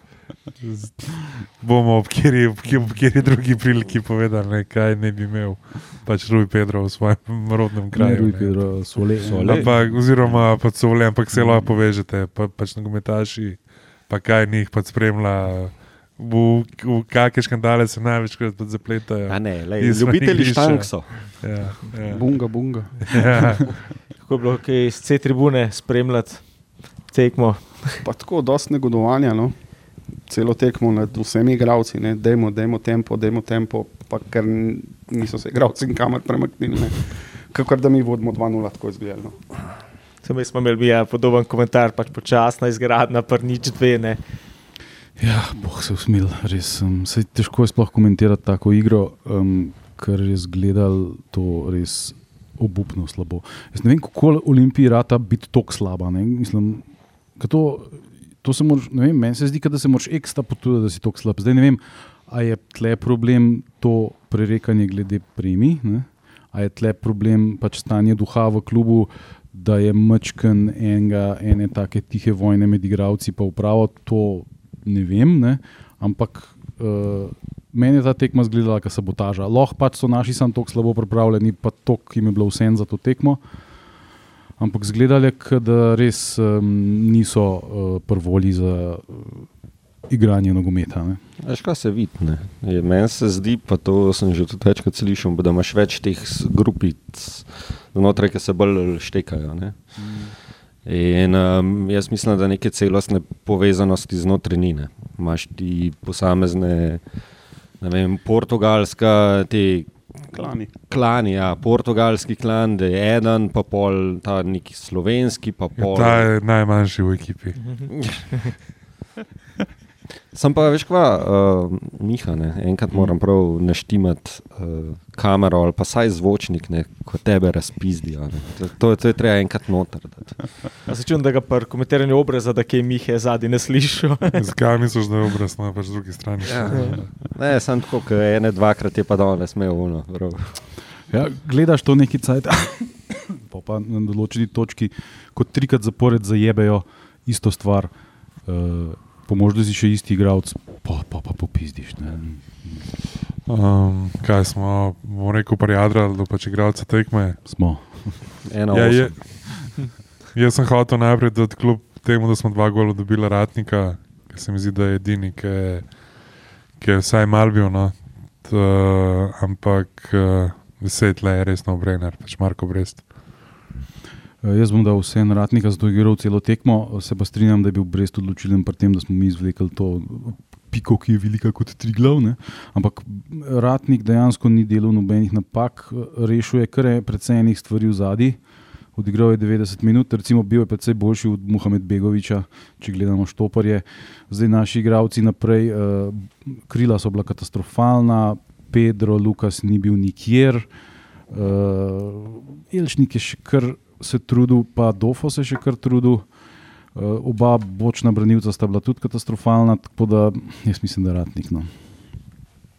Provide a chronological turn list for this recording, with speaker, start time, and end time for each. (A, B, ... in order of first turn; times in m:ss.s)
0:00.6-0:08.6 A
0:07.9-0:09.9 B
0:09.2-0:10.5 C
0:09.4-0:22.4 A
0:11.3-0:11.7 B
0:19.3-0:21.4 C
0:22.1-0:23.5 D
0:23.0-0:23.8 A
0:24.2-0:28.0 E
0:28.0-0:29.6 D
0:30.3-0:39.4 D
0:40.2-0:44.2 E
0:45.2-0:56.9 B
0:57.4-1:23.4 B
1:24.6-1:29.5 B
1:30.1-1:31.2 B
1:31.4-1:39.8 C
1:40.0-1:40.3 B
1:40.8-1:47.0 C
1:47.8-1:50.0 C
1:50.3-1:50.7 D
1:50.9-1:56.3 C
1:55.8-1:57.6 A
1:57.6-1:58.5 E
1:57.9-1:58.3 C
2:00.3-2:10.5 C
2:10.9-2:14.5 E
2:14.3-2:17.1 A
2:16.4-2:20.6 C
2:21.1-2:27.9 B
2:28.5-2:32.9 B
2:33.5-2:37.4 A
2:37.5-2:38.3 B
2:38.5-2:39.2 C
2:38.7-2:45.9 A
2:46.8-2:53.1 A
2:54.4-3:08.4 B
3:09.0-3:20.7 B
3:21.3-3:26.3 B
3:27.0-3:31.7 B